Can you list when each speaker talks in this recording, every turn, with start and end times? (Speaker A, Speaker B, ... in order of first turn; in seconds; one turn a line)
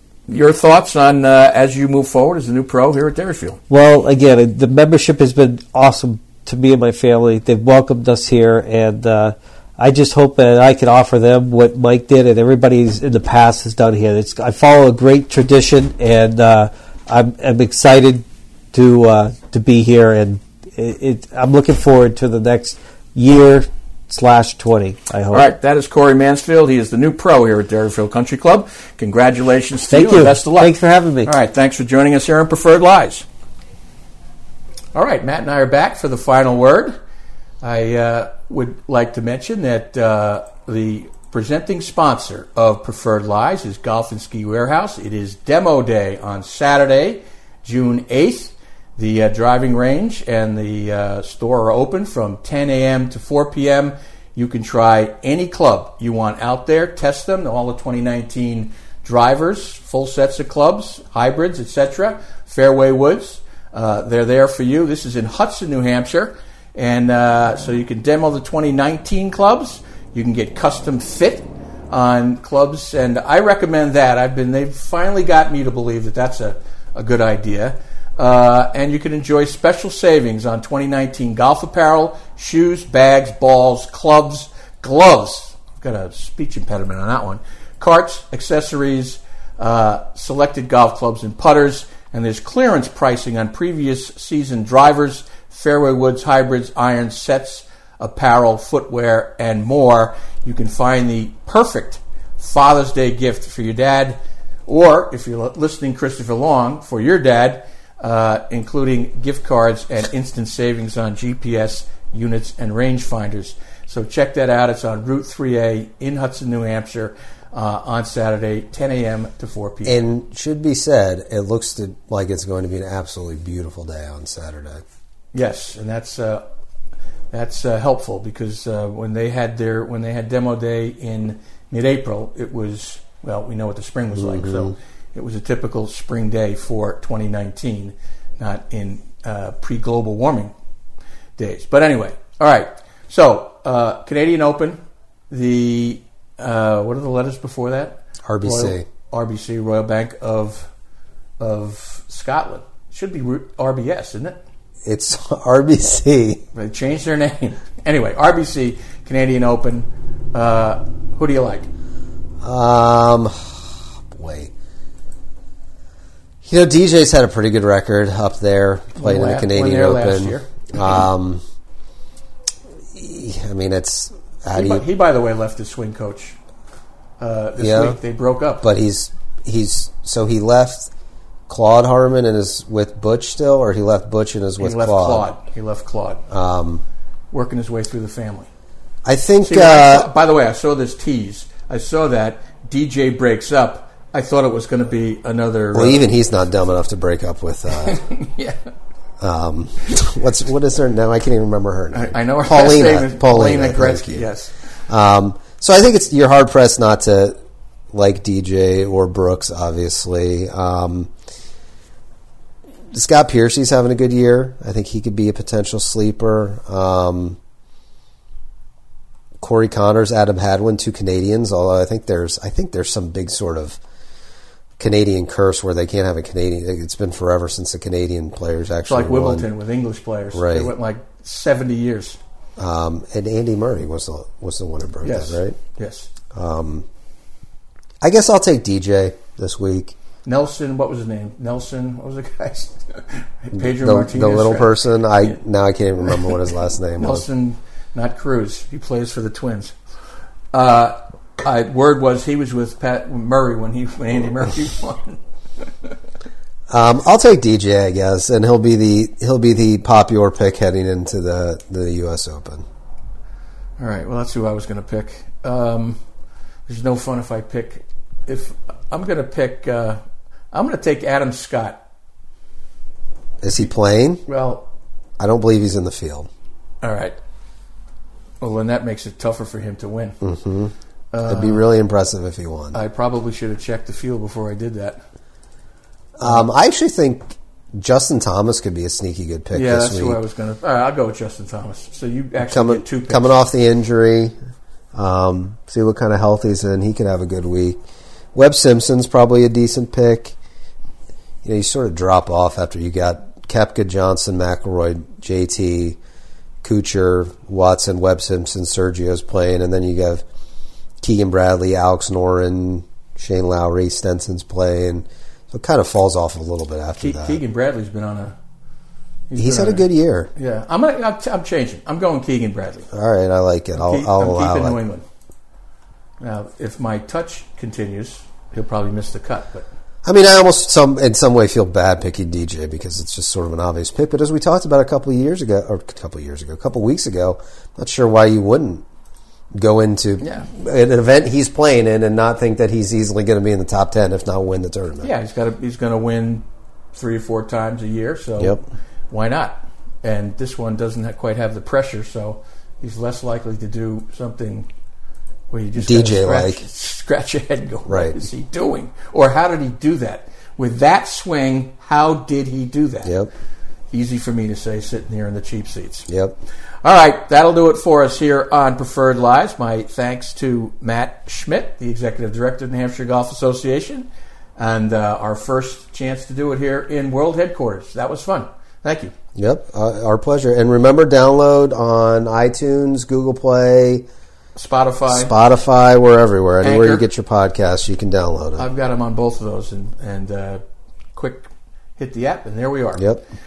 Speaker A: 0.3-3.6
Speaker B: 3.7-25.4
Speaker A: 25.3-33.2
Speaker B: 29.9-31.3
Speaker A: 34.9-37.0
Speaker A: 37.6-120.0
Speaker C: 119.8-124.8
Speaker A: 125.3-126.4
Speaker A: 127.3-140.5
Speaker C: 134.2-134.7
Speaker A: 141.4-144.8
Speaker A: 145.3-150.7
Speaker C: 148.2-148.8
Speaker A: 151.4-154.4
Speaker C: 154.8-156.4
Speaker A: 156.5-161.7
Speaker C: 162.4-164.5
Speaker C: 166.4-171.4
Speaker A: 168.9-170.7
Speaker C: 172.9-174.8
Speaker A: 174.5-176.4
Speaker A: 177.2-178.6
Speaker C: 177.6-178.0
Speaker C: 178.6-180.9
Speaker C: 181.5-185.3
Speaker A: 184.6-186.2
Speaker C: 186.3-186.8
Speaker A: 187.3-188.5
Speaker C: 189.0-190.1
Speaker A: 189.4-196.0
Speaker C: 195.7-198.0
Speaker A: 197.8-198.6
Speaker C: 199.2-204.3
Speaker A: 201.9-204.5
Speaker C: 204.9-207.3
Speaker C: 207.9-211.1
Speaker C: 212.9-217.4
Speaker C: 219.4-223.8
Speaker C: 224.8-229.5
Speaker A: 228.8-232.2
Speaker C: 230.3-230.7
Speaker C: 232.6-235.6
Speaker A: 235.0-236.1
Speaker C: 236.3-236.8
Speaker C: 238.0-239.9
Speaker A: 240.2-245.3
Speaker C: 243.5-247.2
Speaker A: 247.0-249.8
Speaker A: 250.5-255.2
Speaker C: 256.7-262.6
Speaker A: 263.8-266.0
Speaker A: 266.7-270.0
Speaker A: 270.5-271.8
Speaker C: 273.4-274.2
Speaker A: 274.3-274.6
Speaker C: 275.2-276.3
Speaker A: 276.8-277.1
Speaker A: 278.4-280.2
Speaker C: 280.2-280.7
Speaker A: 281.1-281.6
Speaker C: 281.3-282.8
Speaker A: 282.7-285.0
Speaker C: 286.2-290.2
Speaker A: 289.5-293.3
Speaker C: 292.5-294.3
Speaker C: 294.9-297.8
Speaker C: 298.3-300.4
Speaker C: 301.4-306.0
Speaker C: 306.6-310.2
Speaker C: 311.0-317.4
Speaker A: 317.0-318.4
Speaker A: 319.3-322.9
Speaker C: 319.4-320.3
Speaker C: 322.9-324.8
Speaker A: 323.8-325.0
Speaker A: 326.2-329.7
Speaker C: 330.0-338.8
Speaker C: 339.5-345.1
Speaker A: 340.2-340.5
Speaker A: 345.0-354.7
Speaker A: 355.5-363.1
Speaker C: 355.8-356.6
Speaker C: 357.9-358.2
Speaker C: 363.0-363.3
Speaker A: 363.9-366.1
Speaker C: 366.1-366.4
Speaker A: 366.8-374.1
Speaker A: 374.6-379.1
Speaker C: 379.4-384.0
Speaker A: 384.6-385.3
Speaker C: 385.1-388.6
Speaker A: 386.6-387.0
Speaker A: 388.6-390.6
Speaker A: 391.1-393.1
Speaker C: 392.9-393.2